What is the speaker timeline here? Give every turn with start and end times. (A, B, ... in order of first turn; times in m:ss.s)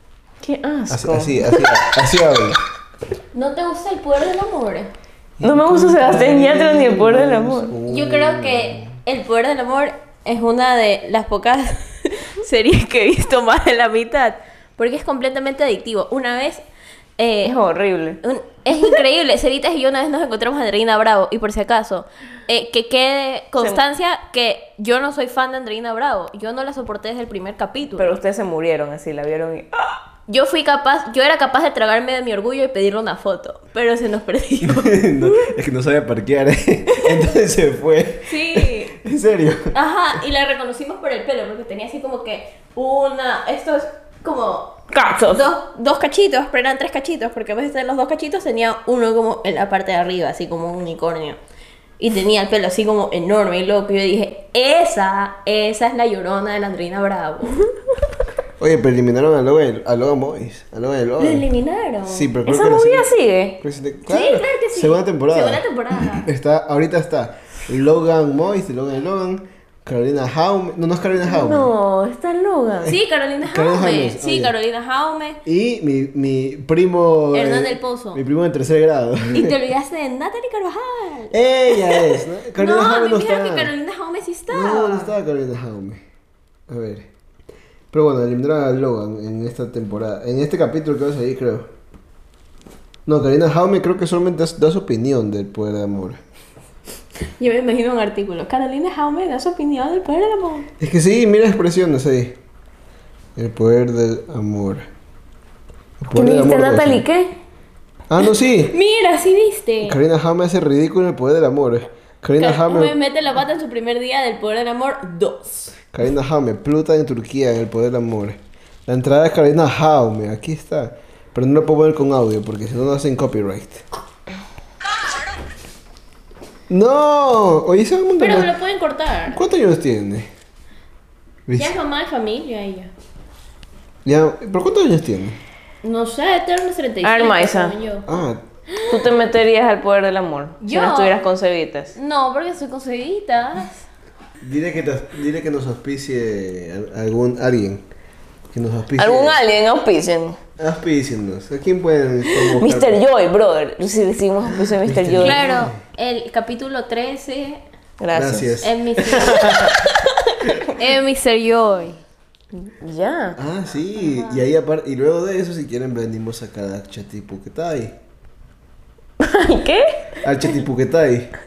0:00.4-0:01.8 A
0:00.9-0:02.6 B
0:03.3-0:04.9 C
0:05.4-0:09.0 B
0:05.4-0:07.7 A
0:07.8-0:16.6 C
0:17.2-0:17.6 C
0:17.4-0:18.2 A
0:18.2-0:28.2 C
0:28.0-0:30.0 A
0:30.3-0:35.5 C
0:34.6-0:39.7 B
0:36.9-0:37.2 C
0:38.3-0:38.9 C
0:39.7-0:51.4 C
0:44.9-0:45.4 A
0:52.0-0:57.7 C
0:58.6-1:01.4 B
1:01.2-1:02.3 C
1:02.0-1:03.1 B
1:02.4-1:03.6 A
1:03.6-1:11.7 B
1:04.0-1:06.3 C
1:11.2-1:12.9 A
1:12.8-1:15.4 C
1:13.4-1:14.5 B
1:15.4-1:19.5 B
1:17.3-1:18.2 C
1:19.3-1:25.1 C
1:21.3-1:23.7 B
1:24.5-1:26.0 B
1:26.7-1:27.1 B
1:27.9-1:31.7 B
1:33.0-1:36.2 B
1:37.4-1:40.7 C
1:40.8-1:42.4 B
1:43.4-1:44.9 B
1:46.0-1:47.0 B
1:46.1-1:47.3 A
1:48.1-1:48.7 B
1:48.7-1:50.0 C
1:49.8-1:52.9 B
1:52.4-1:55.8 C
1:55.9-2:03.8 B
2:06.7-2:08.5 B
2:08.2-2:09.4 C
2:09.3-2:10.3 B
2:11.5-2:11.8 B
2:11.6-2:12.9 C
2:14.0-2:15.4 B
2:15.8-2:18.1 C
2:17.0-2:17.8 A
2:18.1-2:18.4 B
2:18.9-2:21.9 A
2:20.6-2:21.2 C
2:21.9-2:23.8 C
2:24.4-2:27.8 B
2:28.5-2:29.4 B
2:29.0-2:30.4 A
2:30.6-2:33.0 B
2:32.5-2:35.4 A
2:34.6-2:35.8 B
2:35.2-2:37.6 C
2:38.0-2:38.6 A
2:38.1-2:39.8 B
2:38.6-2:42.0 C
2:42.5-2:43.4 A
2:43.4-2:48.0 B
2:44.0-2:44.4 C
2:49.2-2:50.2 A
2:50.2-2:51.3 B